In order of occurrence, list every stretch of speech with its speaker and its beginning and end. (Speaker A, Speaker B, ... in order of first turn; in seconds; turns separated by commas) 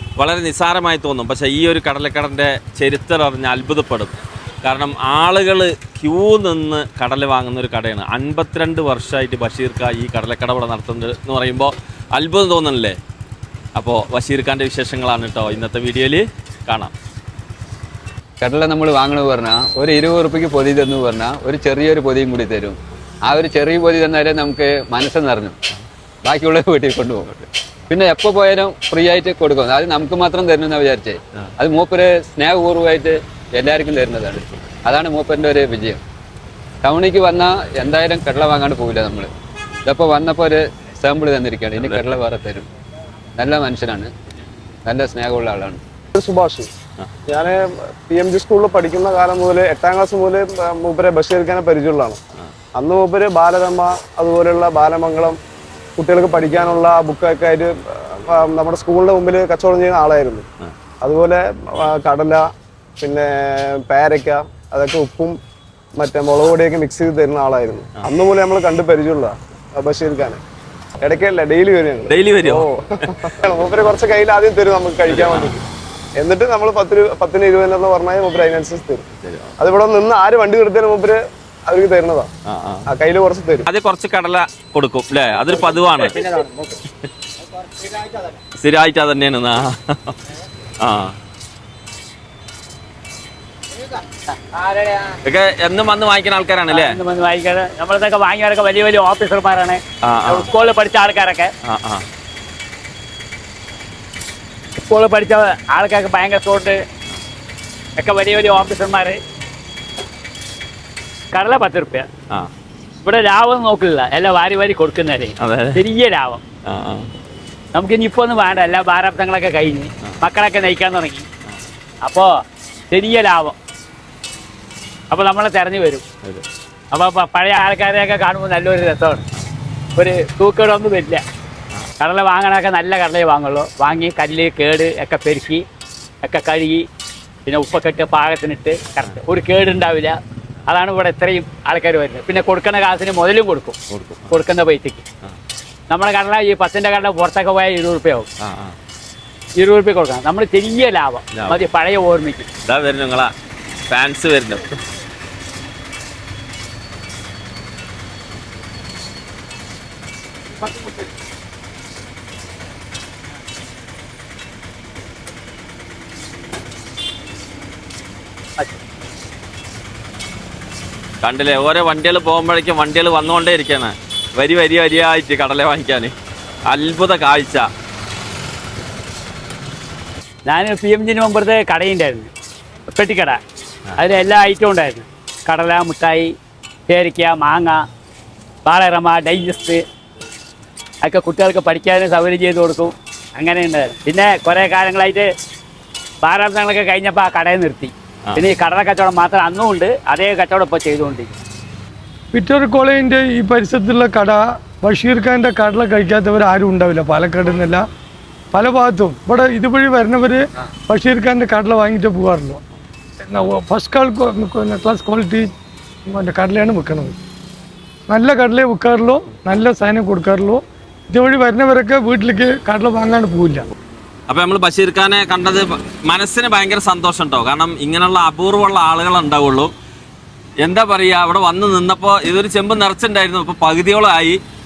Speaker A: 0.2-4.1, Speaker A: 4.6-13.0, Speaker A: 13.7-16.9, Speaker B: 18.4-25.6, Speaker B: 26.2-27.3, Speaker B: 27.9-36.0, Speaker B: 36.8-39.3, Speaker B: 39.8-42.7, Speaker A: 41.7-42.2, Speaker B: 43.4-44.1, Speaker B: 44.8-45.8, Speaker C: 46.1-46.7, Speaker C: 47.3-52.2, Speaker C: 52.8-55.4, Speaker C: 56.0-60.5, Speaker C: 61.0-62.5, Speaker C: 63.0-65.4, Speaker C: 66.0-70.4, Speaker C: 71.0-75.6, Speaker A: 72.1-73.1, Speaker A: 75.1-75.5, Speaker C: 76.2-79.0, Speaker A: 79.2-79.5, Speaker C: 79.6-82.3, Speaker A: 82.5-82.8, Speaker C: 82.9-83.7, Speaker A: 83.6-86.2, Speaker A: 88.5-90.2, Speaker A: 90.8-91.2, Speaker A: 95.1-97.0, Speaker D: 96.7-101.5, Speaker A: 100.0-100.5, Speaker A: 101.6-102.0, Speaker D: 104.8-106.8, Speaker D: 108.0-109.2, Speaker D: 111.3-112.1, Speaker D: 113.0-116.4, Speaker A: 115.4-115.8, Speaker A: 116.6-117.1, Speaker D: 117.7-121.2, Speaker D: 122.0-122.3, Speaker D: 122.9-123.5, Speaker D: 125.1-126.0, Speaker D: 126.9-129.2, Speaker D: 130.0-131.2, Speaker D: 132.0-135.6, Speaker D: 136.2-136.8, Speaker D: 137.4-140.1, Speaker D: 140.7-143.7, Speaker A: 143.9-144.4, Speaker D: 144.3-145.0, Speaker D: 145.9-148.3, Speaker A: 148.4-148.8, Speaker D: 149.6-152.5, Speaker A: 151.3-151.6, Speaker A: 152.7-153.3, Speaker A: 153.9-154.8, Speaker A: 171.2-176.1, Speaker A: 176.7-177.7, Speaker D: 180.4-182.3, Speaker D: 182.9-183.4, Speaker D: 184.0-186.3, Speaker D: 186.9-187.8, Speaker D: 188.6-189.8, Speaker D: 191.0-195.3, Speaker D: 196.2-201.3, Speaker E: 202.3-207.8, Speaker E: 208.5-212.6, Speaker E: 213.2-215.5, Speaker E: 216.1-217.2, Speaker E: 218.1-223.6, Speaker A: 224.3-229.7, Speaker A: 230.6-234.4